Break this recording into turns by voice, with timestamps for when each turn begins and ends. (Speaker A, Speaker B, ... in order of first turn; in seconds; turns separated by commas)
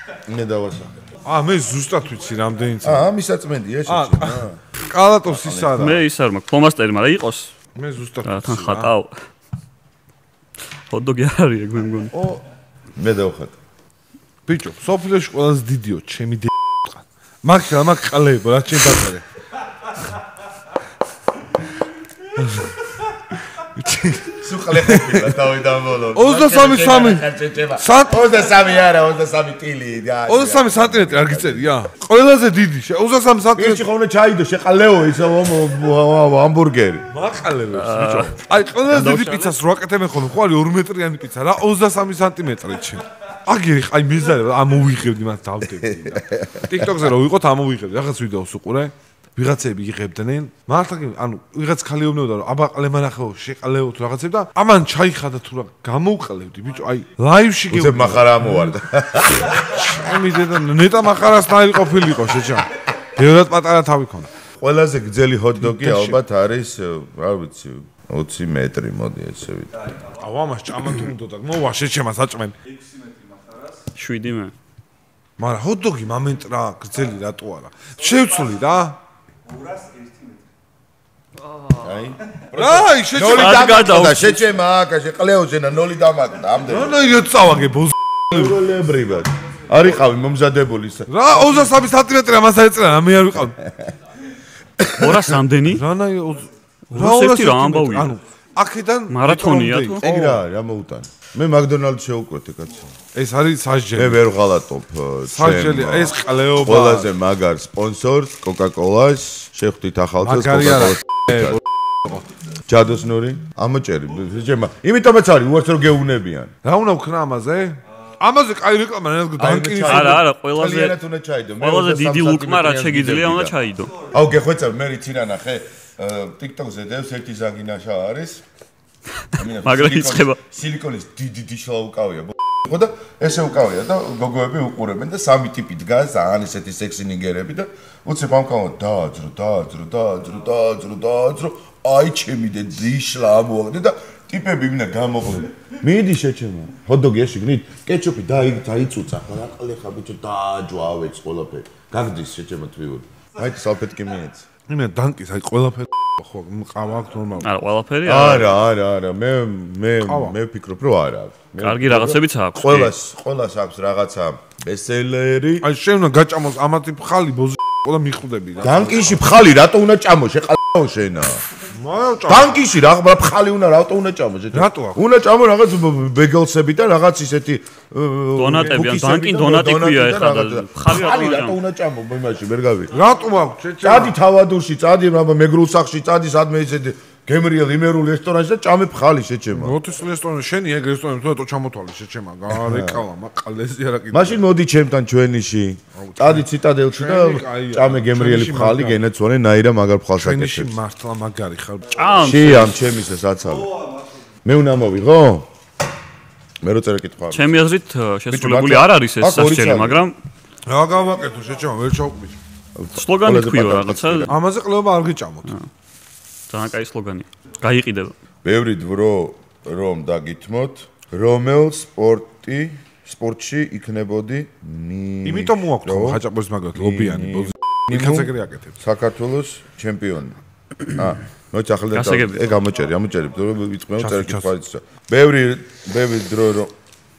Speaker A: 0.3-0.9, Speaker B: 1.2-3.1, Speaker A: 2.8-4.6, Speaker B: 3.9-6.0, Speaker A: 5.2-6.0, Speaker C: 5.8-7.5, Speaker B: 7.7-8.9, Speaker C: 8.2-9.2, Speaker C: 10.9-12.1, Speaker B: 12.1-12.4, Speaker A: 12.9-13.5, Speaker B: 14.5-19.2, Speaker B: 22.4-22.8, Speaker B: 23.6-25.4, Speaker A: 24.4-31.7, Speaker B: 26.1-28.2, Speaker B: 30.3-33.9, Speaker A: 33.5-37.1, Speaker B: 37.1-58.7, Speaker C: 37.7-38.3, Speaker C: 38.9-39.6, Speaker A: 45.8-47.0, Speaker A: 57.7-59.9, Speaker B: 59.5-64.3, Speaker A: 64.6-69.7, Speaker B: 65.6-66.2, Speaker B: 70.2-72.5, Speaker C: 74.0-74.5, Speaker B: 75.4-79.0, Speaker C: 81.4-81.9, Speaker A: 81.8-87.0, Speaker B: 82.5-84.1, Speaker C: 83.2-84.4, Speaker B: 86.7-88.6, Speaker A: 88.3-91.7, Speaker B: 91.1-93.6, Speaker A: 93.6-93.9, Speaker A: 94.8-95.4, Speaker C: 94.9-95.8, Speaker B: 95.7-100.4, Speaker C: 96.9-98.1, Speaker C: 99.1-100.0, Speaker A: 100.0-102.9, Speaker B: 103.1-104.2, Speaker A: 103.9-111.6, Speaker B: 105.3-107.1, Speaker B: 110.2-112.2, Speaker A: 112.7-116.5, Speaker B: 116.6-120.2, Speaker A: 119.4-123.5, Speaker C: 119.8-121.0, Speaker C: 121.6-123.9, Speaker A: 124.1-128.4, Speaker A: 129.3-154.4, Speaker C: 129.6-130.4, Speaker B: 154.7-157.5, Speaker C: 157.4-158.5, Speaker A: 158.0-165.6, Speaker B: 160.0-160.3, Speaker C: 161.6-162.9, Speaker B: 165.6-169.2, Speaker A: 168.6-171.4, Speaker B: 171.7-172.6, Speaker A: 172.3-182.9, Speaker B: 174.5-175.0, Speaker C: 178.4-181.6, Speaker B: 178.6-178.8, Speaker B: 182.9-184.1, Speaker A: 183.8-189.8, Speaker B: 189.5-194.4, Speaker A: 192.5-193.0, Speaker A: 194.1-200.7, Speaker B: 195.9-199.0, Speaker B: 200.2-201.8, Speaker C: 201.9-202.8, Speaker A: 202.2-203.8, Speaker A: 204.4-205.5, Speaker A: 206.6-207.5, Speaker C: 207.3-210.1, Speaker A: 208.3-210.0, Speaker B: 210.7-212.4, Speaker A: 212.8-214.3, Speaker C: 212.9-214.3, Speaker B: 214.3-215.5, Speaker C: 216.5-218.1, Speaker A: 218.4-226.2, Speaker B: 225.2-228.8, Speaker A: 226.7-230.3, Speaker A: 230.9-236.7, Speaker C: 231.9-232.5, Speaker B: 234.0-234.5